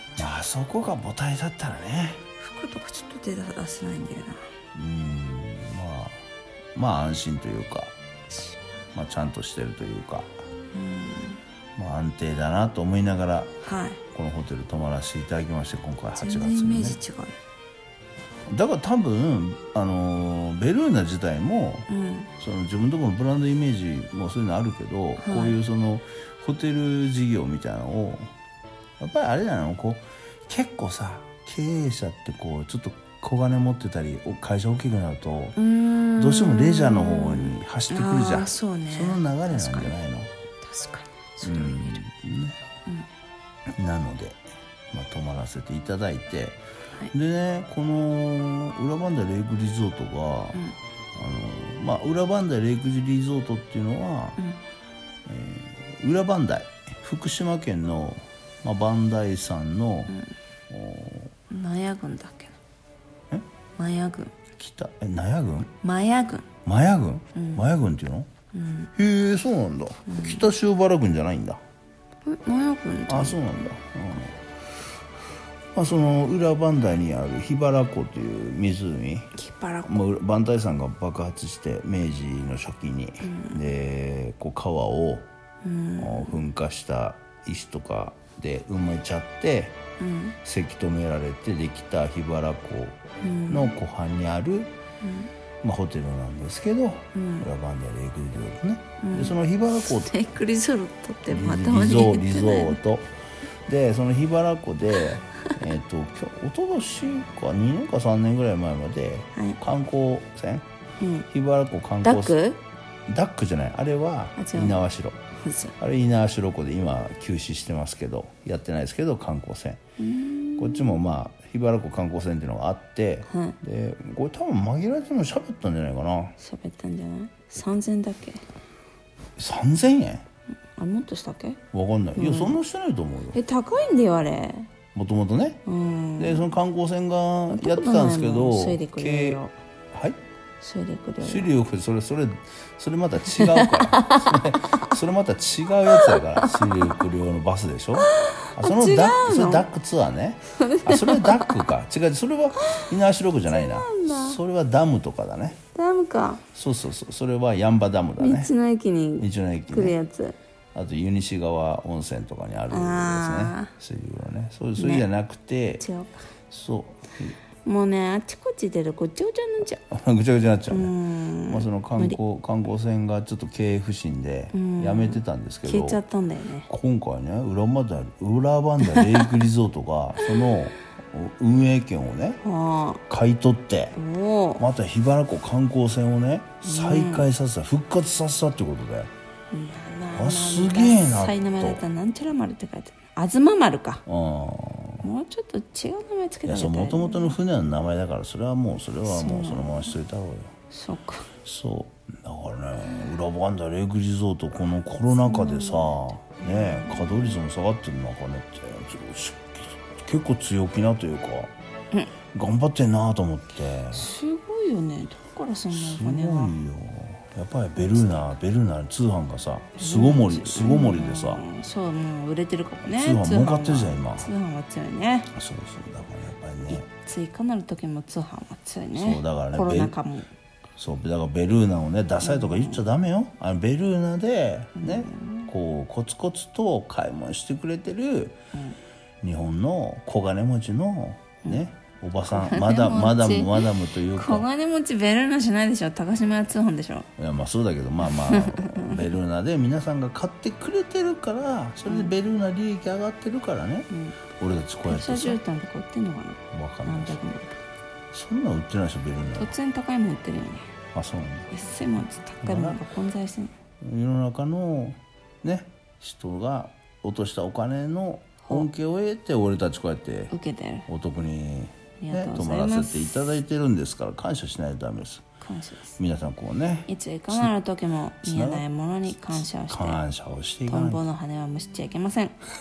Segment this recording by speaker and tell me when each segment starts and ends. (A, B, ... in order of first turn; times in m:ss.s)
0:00.2-0:02.2 A
0:02.4-0:04.5 B
0:04.7-0:06.2 A
0:06.7-0:07.9 A
0:08.9-0:10.3 A
0:10.7-0:11.4 B
0:11.8-0:13.6 A
0:13.6-0:14.0 B
0:14.1-0:17.0 A
0:16.2-0:17.4 B
0:18.5-0:28.3 A
0:21.9-0:22.3 B
0:25.2-0:25.6 B
0:29.0-0:35.6 A
0:35.6-0:39.9 B
0:36.1-0:40.3 A
0:40.6-0:42.0 B
0:41.4-0:42.6 A
0:43.8-0:44.4 A
0:44.9-0:46.6 A
0:47.1-0:50.6 A
0:51.1-0:54.4 A
0:55.2-1:00.1 A
1:00.7-1:01.3 A
1:01.5-1:02.6 B
1:03.8-1:04.4 B
1:04.6-1:05.7 A
1:05.8-1:06.5 B
1:06.6-1:08.3 A
1:07.3-1:07.6 B
1:08.5-1:08.9 B
1:08.9-1:11.6 A
1:10.1-1:10.5 B
1:12.2-1:13.4 B
1:13.1-1:14.9 A
1:15.7-1:19.3 A
1:19.3-1:20.0 B
1:19.8-1:25.3 A
1:23.2-1:23.6 B
1:25.6-1:26.4 B
1:26.0-1:29.8 A
1:30.0-1:30.4 B
1:30.4-1:34.7 A
1:33.2-1:33.7 B
1:35.0-1:35.3 B
1:35.6-1:40.1 A
1:37.1-1:37.5 B
1:39.0-1:42.8 B
1:41.3-1:43.1 A
1:43.7-1:50.6 A
1:51.0-1:51.2 B
1:51.3-1:52.4 A
1:52.0-1:52.6 B
1:53.1-1:55.2 A
1:54.4-1:54.8 B
1:55.3-1:55.7 B
1:55.8-1:59.8 A
2:00.0-2:01.0 B
2:00.6-2:06.3 A
2:03.2-2:03.6 B
2:06.4-2:08.4 B
2:09.4-2:10.2 A
2:10.8-2:11.6 B
2:11.7-2:13.4 A
2:12.2-2:12.6 B
2:13.3-2:14.7 B
2:14.9-2:15.6 A
2:15.6-2:16.5 B
2:16.2-2:20.2 A
2:17.5-2:19.5 B
2:20.6-2:21.5 B
2:21.2-2:35.6 A
2:23.3-2:24.9 B
2:25.9-2:26.9 B
2:28.0-2:29.6 B
2:30.5-2:31.6 B
2:32.6-2:32.8 B
2:33.5-2:34.4 B
2:35.7-2:36.4 B
2:36.5-2:38.5 A
2:38.2-2:40.4 B
2:39.2-2:40.0 A
2:40.7-2:45.8 A
2:42.7-2:43.7 B
2:44.8-2:45.1 B
2:45.8-2:46.3 B
2:46.5-2:47.4 A
2:47.6-2:49.8 B
2:49.9-2:50.9 A
2:50.7-2:52.2 B
2:51.5-2:56.0 A
2:54.5-2:56.7 B
2:56.7-3:02.4 A
2:58.8-2:59.2 B
3:02.4-3:03.0 B
3:03.1-3:04.0 A
3:04.0-3:04.6 B
3:04.6-3:09.1 A
3:06.6-3:07.3 B
3:09.5-3:14.0 B
3:10.1-3:11.8 A
3:14.0-3:15.1 A
3:15.0-3:17.4 B
3:16.4-3:20.5 A
3:19.0-3:19.9 B
3:20.7-3:21.3 B
3:21.4-3:31.5 A
3:25.2-3:27.4 B
3:32.3-3:34.1 A
3:33.9-3:36.6 B
3:35.7-3:41.4 A
3:37.8-3:38.3 B
3:39.8-3:45.3 B
3:42.9-3:44.3 A
3:45.3-3:46.9 A
3:46.7-3:50.3 B
3:48.9-3:50.0 A
3:50.8-3:58.4 A
3:52.2-3:52.8 B
3:54.8-3:55.5 B
3:59.2-4:04.4 A
4:02.3-4:07.1 B
4:07.2-4:15.4 A
4:08.0-4:09.1 B
4:13.9-4:14.2 B
4:14.9-4:17.5 B
4:16.5-4:17.2 A
4:18.1-4:19.5 A
4:19.4-4:20.7 B
4:20.9-4:21.5 A
4:21.5-4:23.5 B
4:22.4-4:22.8 A
4:23.8-4:30.3 A
4:30.3-4:30.9 B
4:30.9-4:35.2 A
4:32.0-4:33.2 B
4:35.4-4:36.0 B
4:36.0-4:37.5 A
4:36.9-4:40.0 B
4:38.2-4:41.0 A
4:40.7-4:42.4 B